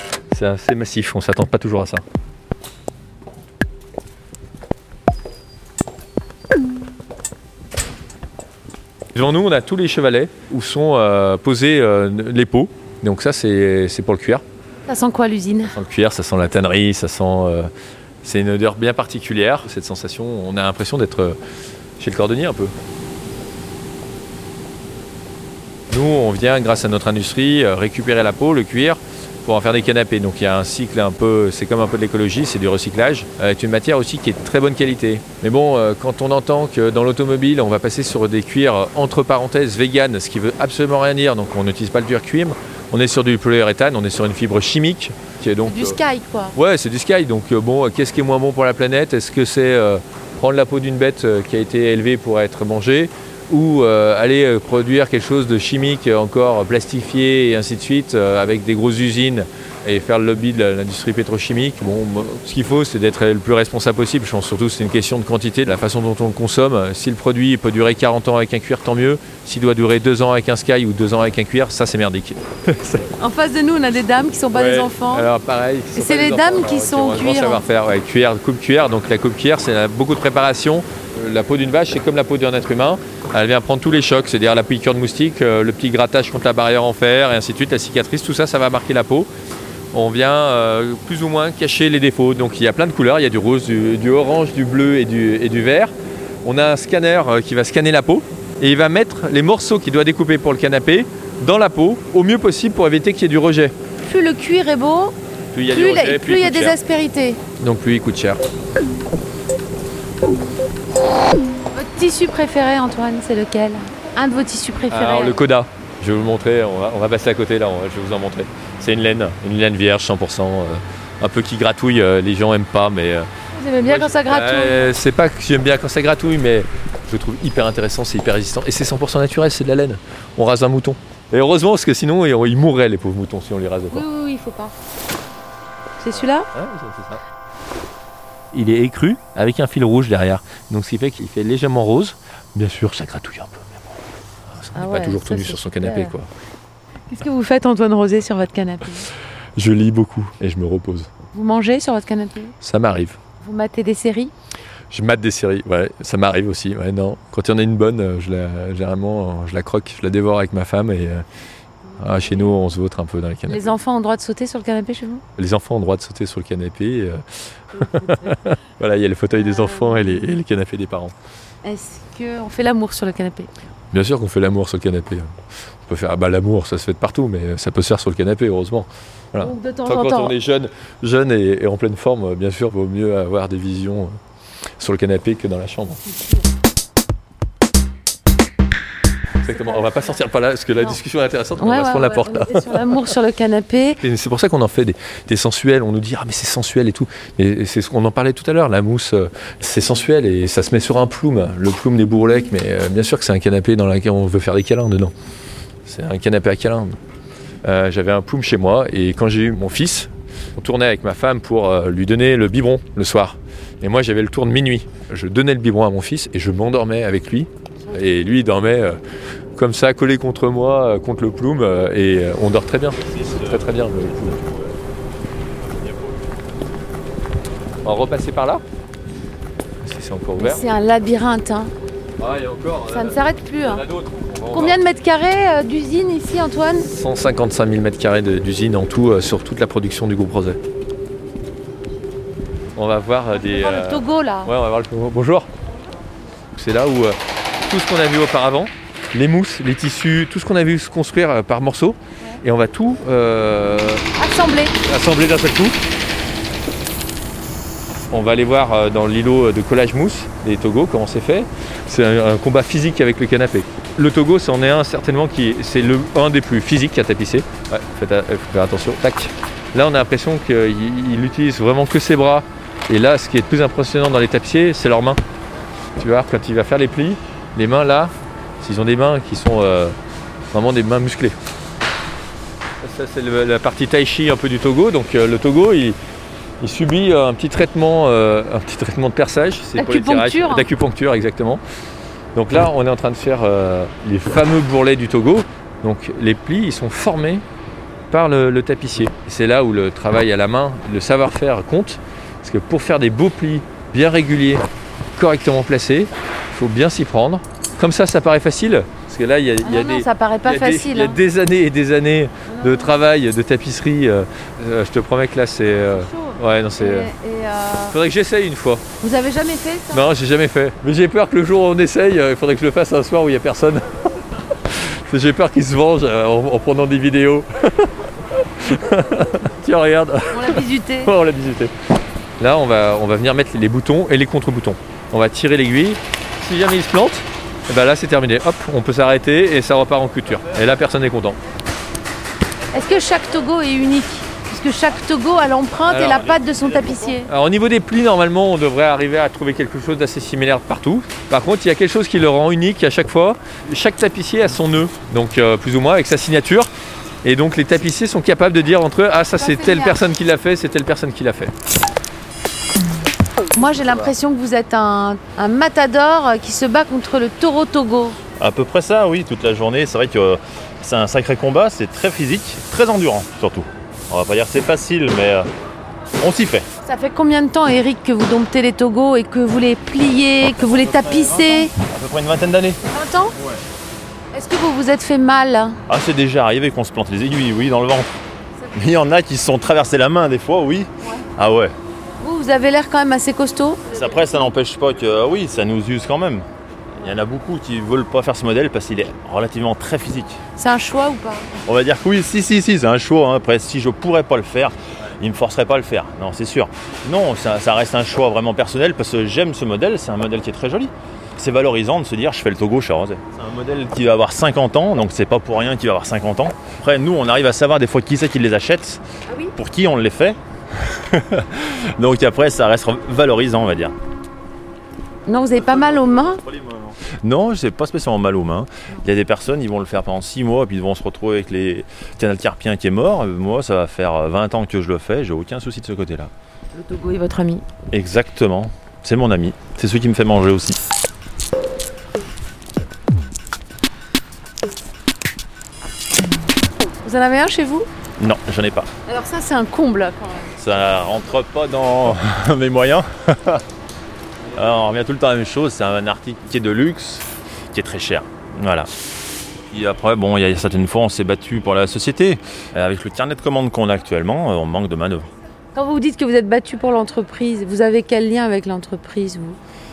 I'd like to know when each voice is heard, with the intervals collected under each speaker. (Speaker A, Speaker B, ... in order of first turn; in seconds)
Speaker A: 0.3-2.0, 9.1-14.4, 15.7-17.7, 18.2-21.4, 22.0-22.7, 25.9-46.0, 46.5-73.0, 74.6-89.3, 89.9-95.9, 96.4-103.7, 105.5-106.8, 107.6-108.4, 114.9-123.3, 123.8-134.0, 136.5-137.2, 138.5-143.8, 144.5-146.3, 149.6-151.1, 152.6-153.2, 154.9-161.2, 162.0-163.7, 165.4-167.2, 167.9-171.1, 173.9-175.3, 175.8-184.2, 184.8-186.0, 189.4-193.1, 194.0-205.1, 205.8-207.0, 207.6-219.0, 219.6-224.4, 227.8-228.6, 229.8-230.7, 232.2-234.8, 236.8-240.6, 242.7-245.5, 246.6-254.1, 254.8-255.8, 258.1-275.2, 275.9-279.9, 280.5-281.4, 282.8-286.0, 286.6-291.6, 292.3-297.4, 298.1-304.6, 305.1-317.1, 317.9-318.8, 319.9-331.7, 332.4-341.4, 345.8-346.2, 347.2-356.7, 357.2-361.5
Speaker B: 14.9-15.8, 45.6-46.6, 73.2-75.3, 76.0-77.6, 104.0-105.1, 105.7-107.4, 111.7-115.4, 123.5-124.9, 133.9-134.7, 136.0-136.5, 144.7-146.1, 147.1-149.1, 151.3-152.5, 153.4-154.3, 162.2-162.6, 163.5-165.2, 167.8-168.1, 169.3-170.2, 171.6-173.5, 179.4-180.3, 186.1-186.4, 189.5-190.2, 191.6-194.0, 230.3-231.7, 232.9-233.8, 234.5-236.9, 243.3-244.5, 254.1-254.8, 289.8-290.7, 309.6-311.2, 312.5-313.0, 315.8-318.0, 319.0-320.1, 330.3-331.1, 342.7-347.3, 359.4-360.0, 363.5-368.2, 376.8-381.7, 382.9-383.4, 384.3-385.8, 392.2-394.1, 400.6-401.6, 419.3-419.5, 425.2-426.4, 436.7-437.6, 447.0-447.9, 449.1-450.5, 465.7-469.6
Speaker C: 223.0-224.7, 225.7-226.1, 346.1-346.9, 368.4-375.5, 376.2-376.7, 380.7-382.8, 385.9-388.1, 388.6-391.7, 393.9-396.4, 397.0-400.4, 401.6-419.0, 419.5-423.9, 425.6-436.3, 437.9-440.8, 448.2-448.9, 450.6-453.6, 454.5-458.9, 459.7-465.3